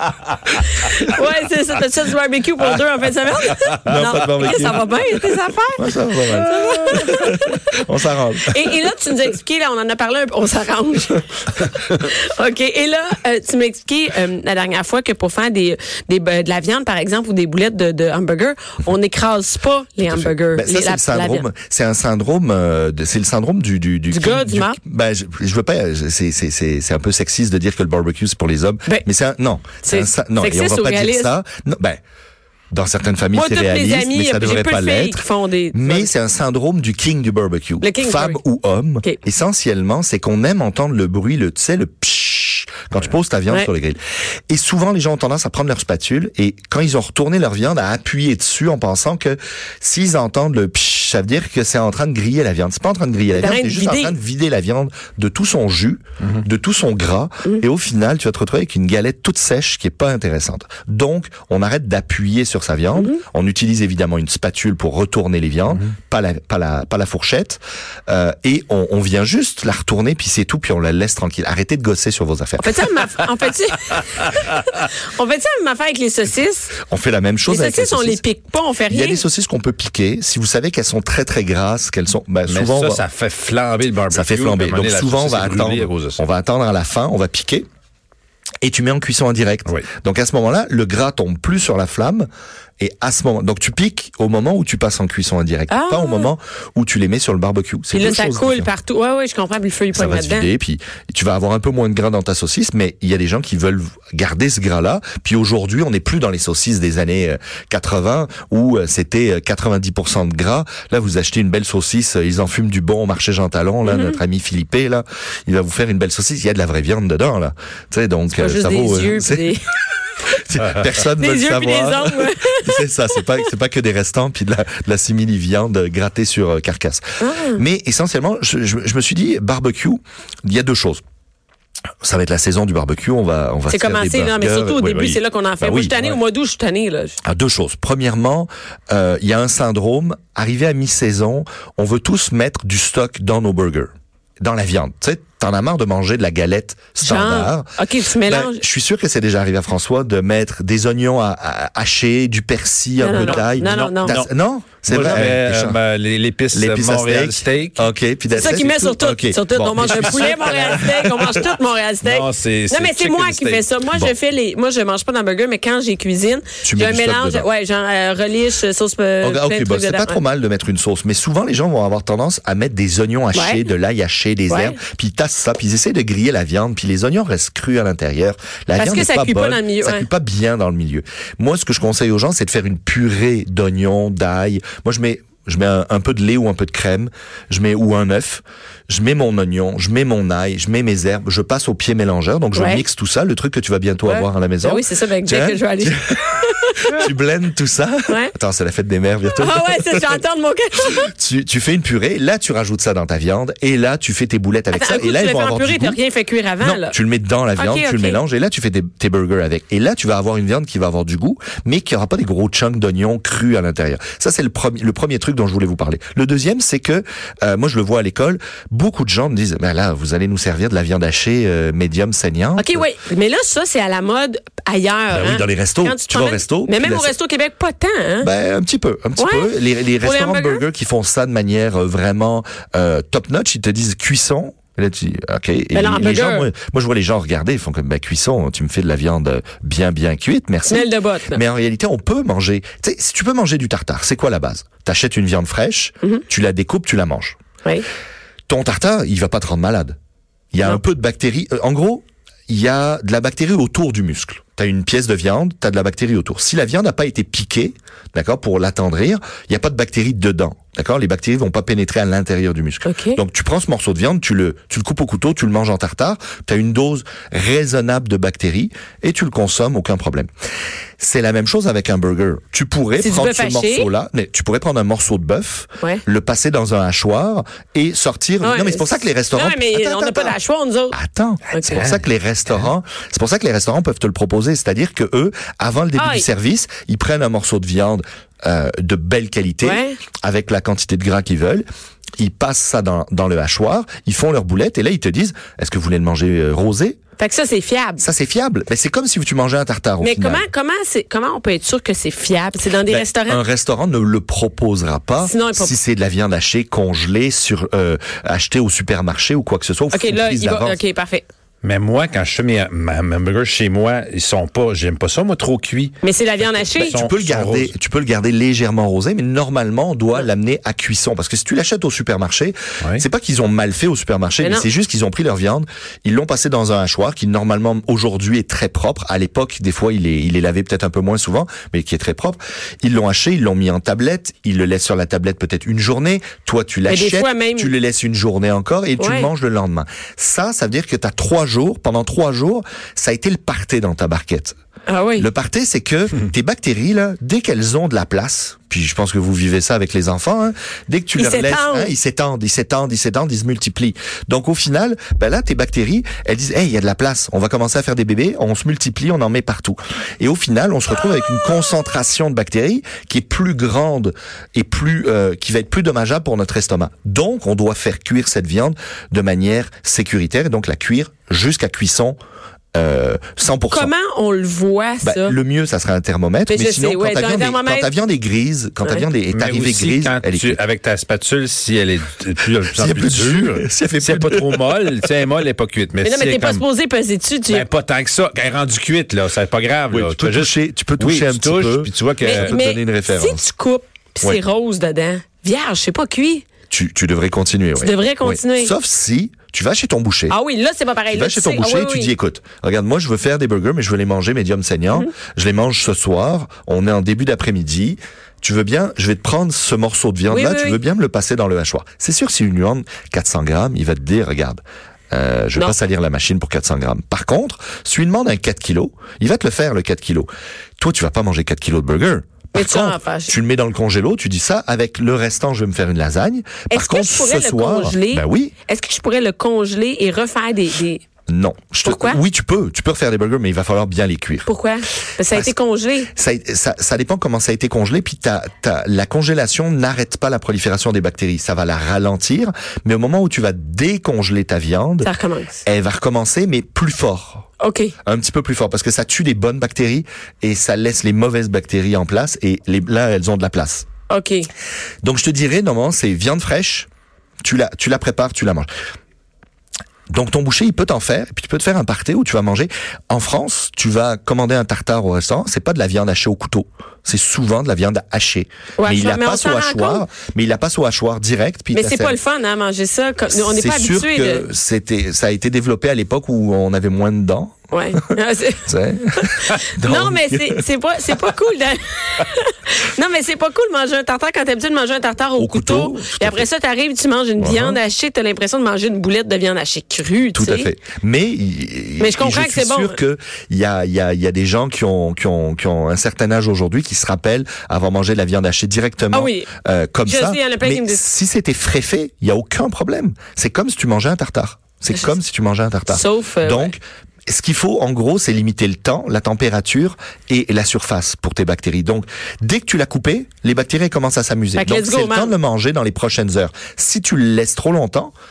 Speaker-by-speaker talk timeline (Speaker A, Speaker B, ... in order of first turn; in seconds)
Speaker A: 0.6-7.8, 8.4-21.5, 24.1-24.8, 29.8-31.3, 33.3-36.1, 37.8-38.4, 53.3-54.2, 63.0-63.2, 72.6-76.7, 77.5-79.2, 95.7-96.3, 97.9-100.5, 113.9-114.2, 118.3-119.7, 121.2-123.5, 127.2-127.6, 133.7-137.2, 147.0-148.6, 153.0-154.2, 158.3-170.2, 173.3-173.6, 174.5-174.8, 178.8-180.1, 192.5-192.8, 194.1-197.1, 198.1-198.3, 199.4-201.1, 204.7-207.0, 207.6-208.2, 222.6-228.3, 229.2-230.6, 235.7-236.5, 240.7-241.4, 262.9-263.2, 273.0-273.9, 278.4-281.0, 281.5-281.8, 286.0-286.3, 289.6-290.0, 297.2-298.0, 300.0-303.4, 305.2-305.7, 309.9-311.3, 316.0-317.0, 324.4-324.7, 336.9-337.7, 339.0-339.3, 344.9-345.3, 351.2-351.9, 373.7-375.4, 376.5-377.9, 386.0-387.7, 392.2-396.4, 397.8-398.7, 400.3-402.1, 410.3-410.8, 422.5-423.3, 426.7-431.0, 431.9-432.2, 434.5-436.1, 445.0-445.6, 447.6-447.9, 454.1-454.5, 468.8-470.1, 471.7-474.5, 477.7-478.7, 479.3-490.7, 492.0-493.0, 499.1-499.5, 500.1-501.0, 505.9-506.7, 514.6-515.3
Speaker B: 3.9-4.9, 5.8-8.8, 20.1-32.0, 32.7-72.9, 76.9-78.2, 78.9-83.0, 84.1-87.7, 88.6-92.3, 92.8-98.7, 99.9-119.5, 120.3-131.0, 132.0-136.2, 137.2-143.9, 144.4-147.7, 148.2-155.8, 156.5-161.5, 166.6-167.5, 169.2-196.2, 196.8-200.2, 201.0-206.0, 206.6-222.9, 225.1-227.1, 228.2-247.4, 248.5-250.0, 250.5-270.3, 271.0-280.4, 280.9-291.6, 292.2-297.0, 298.0-300.5, 302.9-310.8, 316.8-344.6, 345.2-372.2, 372.7-373.9, 375.0-380.6, 382.8-384.7, 389.9-393.5, 396.7-400.4, 401.1-428.5, 431.3-434.5, 436.1-445.1, 445.7-447.5, 448.1-453.9, 455.0-456.9, 457.4-458.7, 460.1-472.2, 473.3-478.1, 478.6-480.6, 485.4-486.5, 487.4-487.8, 490.4-518.1
Speaker C: 82.5-86.2, 120.6-120.8, 153.2-153.5, 154.8-157.9, 159.8-160.8, 162.0-163.7, 281.5-282.7, 311.6-316.0, 316.6-317.7, 379.3-386.6, 387.5-392.6